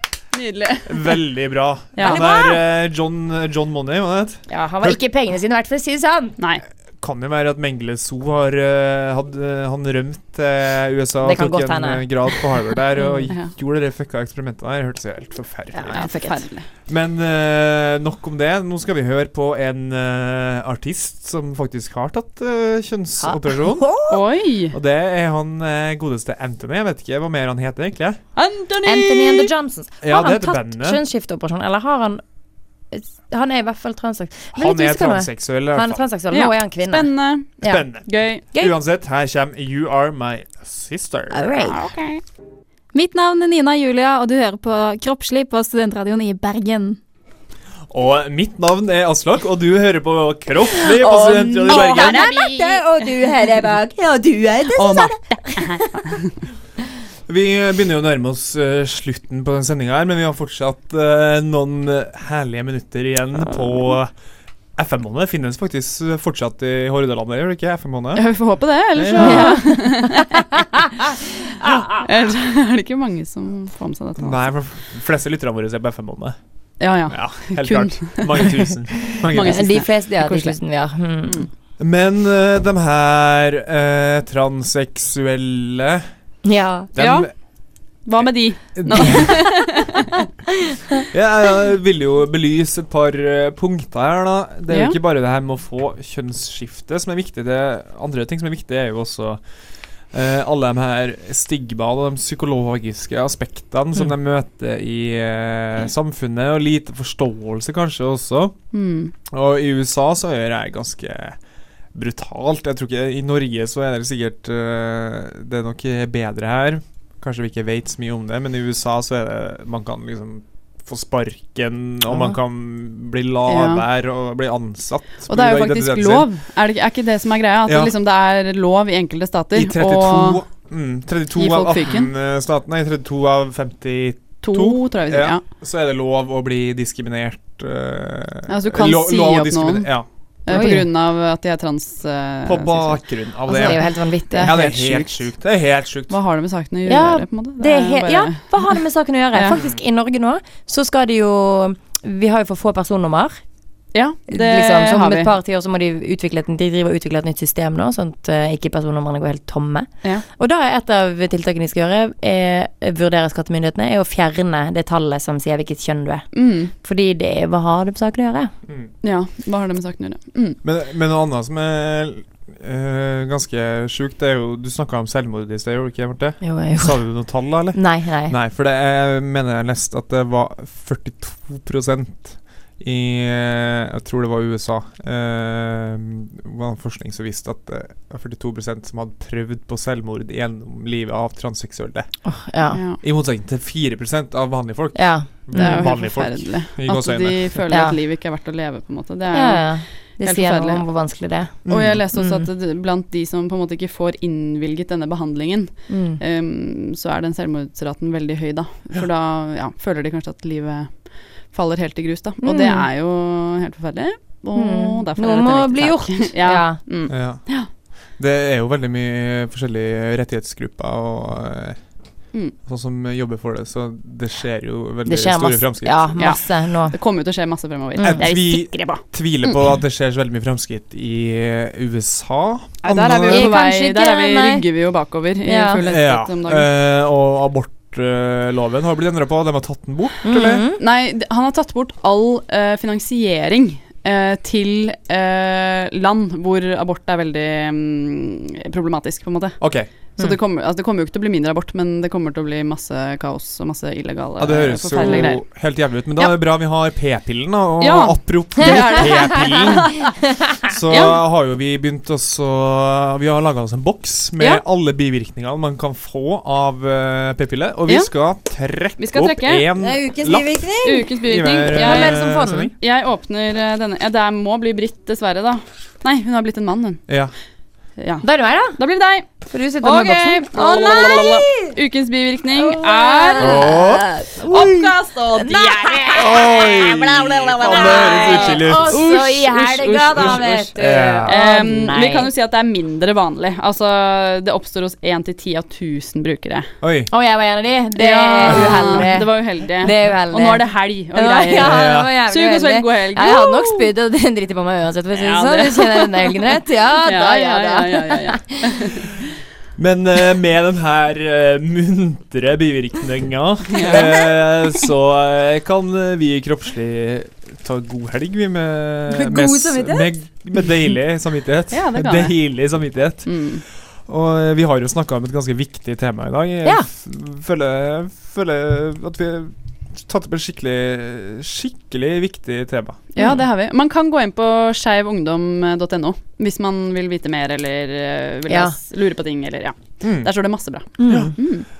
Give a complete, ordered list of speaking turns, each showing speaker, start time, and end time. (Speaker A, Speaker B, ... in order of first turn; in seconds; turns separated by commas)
Speaker A: 0.3-1.2, Speaker B: 0.8-5.0, Speaker A: 1.9-2.4, Speaker C: 2.0-2.5, Speaker C: 4.5-6.4, Speaker A: 6.4-6.6, Speaker B: 7.0-23.9, Speaker C: 11.2-13.3, Speaker C: 15.7-16.5, Speaker A: 15.9-16.7, Speaker C: 23.2-24.2, Speaker A: 24.1-24.7, Speaker B: 24.7-28.2, Speaker A: 28.4-29.5, Speaker C: 28.8-32.2, Speaker B: 30.0-31.0, Speaker C: 32.9-37.8, Speaker B: 34.5-36.0, Speaker A: 36.3-38.4, Speaker B: 37.6-41.5, Speaker C: 41.3-41.9, Speaker A: 41.6-42.2, Speaker D: 42.9-47.0, Speaker B: 47.9-52.2, Speaker C: 51.0-55.6, Speaker A: 51.7-52.6, Speaker D: 51.7-52.6, Speaker A: 54.8-56.3, Speaker D: 54.8-55.1, Speaker B: 57.3-64.1, Speaker B: 64.7-69.7, Speaker A: 68.1-70.3, Speaker C: 69.2-70.0, Speaker C: 71.6-72.0, Speaker A: 72.0-74.5, Speaker B: 74.2-79.9, Speaker A: 76.8-81.5, Speaker C: 79.3-81.4, Speaker B: 81.8-86.1, Speaker C: 86.4-86.9, Speaker B: 86.9-87.3, Speaker A: 87.0-90.0, Speaker B: 87.9-89.7, Speaker B: 91.1-126.3, Speaker A: 94.7-95.0, Speaker A: 108.7-109.1, Speaker C: 122.0-122.4, Speaker A: 123.5-123.8, Speaker A: 125.3-130.4, Speaker B: 127.7-127.9, Speaker B: 129.5-140.8, Speaker A: 131.3-132.1, Speaker A: 134.4-135.4, Speaker A: 138.5-145.4, Speaker C: 140.5-140.9, Speaker B: 142.4-146.2, Speaker C: 143.5-145.0, Speaker A: 146.1-148.8, Speaker C: 146.9-153.4, Speaker A: 149.3-149.6, Speaker A: 153.9-155.3, Speaker C: 154.3-168.5, Speaker A: 166.3-166.7, Speaker A: 169.0-170.6, Speaker B: 170.6-197.6, Speaker C: 176.4-178.3, Speaker C: 192.2-192.8, Speaker A: 192.7-193.0, Speaker C: 194.9-195.9, Speaker A: 195.5-200.8, Speaker C: 197.7-198.0, Speaker C: 199.3-202.5, Speaker A: 201.6-217.7, Speaker B: 201.7-202.0, Speaker C: 205.9-206.2, Speaker C: 212.4-212.9, Speaker C: 214.5-216.8, Speaker B: 217.1-226.3, Speaker C: 225.1-227.0, Speaker A: 226.2-229.6, Speaker C: 227.9-228.3, Speaker B: 228.0-233.6, Speaker A: 232.8-236.7, Speaker C: 233.3-234.6, Speaker C: 235.4-235.8, Speaker B: 235.9-240.6, Speaker C: 240.2-240.8, Speaker A: 240.8-256.4, Speaker B: 249.6-249.9, Speaker B: 254.4-272.7, Speaker C: 255.0-255.3, Speaker A: 257.8-260.1, Speaker C: 258.7-259.0, Speaker A: 260.9-261.2, Speaker A: 269.0-269.6, Speaker C: 269.8-271.1, Speaker A: 270.8-277.2, Speaker C: 271.7-272.7, Speaker B: 277.1-277.3, Speaker A: 277.9-279.3, Speaker C: 278.2-278.8, Speaker C: 279.4-281.7, Speaker A: 279.8-283.6, Speaker C: 282.6-287.0, Speaker B: 283.4-284.1, Speaker A: 284.5-290.7, Speaker B: 286.1-288.9, Speaker C: 287.6-292.3, Speaker B: 290.1-291.3, Speaker A: 291.2-296.7, Speaker B: 296.8-297.1, Speaker C: 297.1-308.6, Speaker A: 297.9-303.9, Speaker B: 298.5-299.1, Speaker B: 301.6-302.1, Speaker A: 305.1-306.4, Speaker A: 307.0-309.1, Speaker B: 309.8-333.1, Speaker A: 313.7-314.1, Speaker C: 319.1-320.1, Speaker A: 321.7-322.5, Speaker A: 323.2-323.6, Speaker A: 333.1-341.6, Speaker C: 333.2-333.4, Speaker C: 338.5-338.8, Speaker B: 340.0-340.3, Speaker B: 340.8-341.5, Speaker C: 341.0-341.3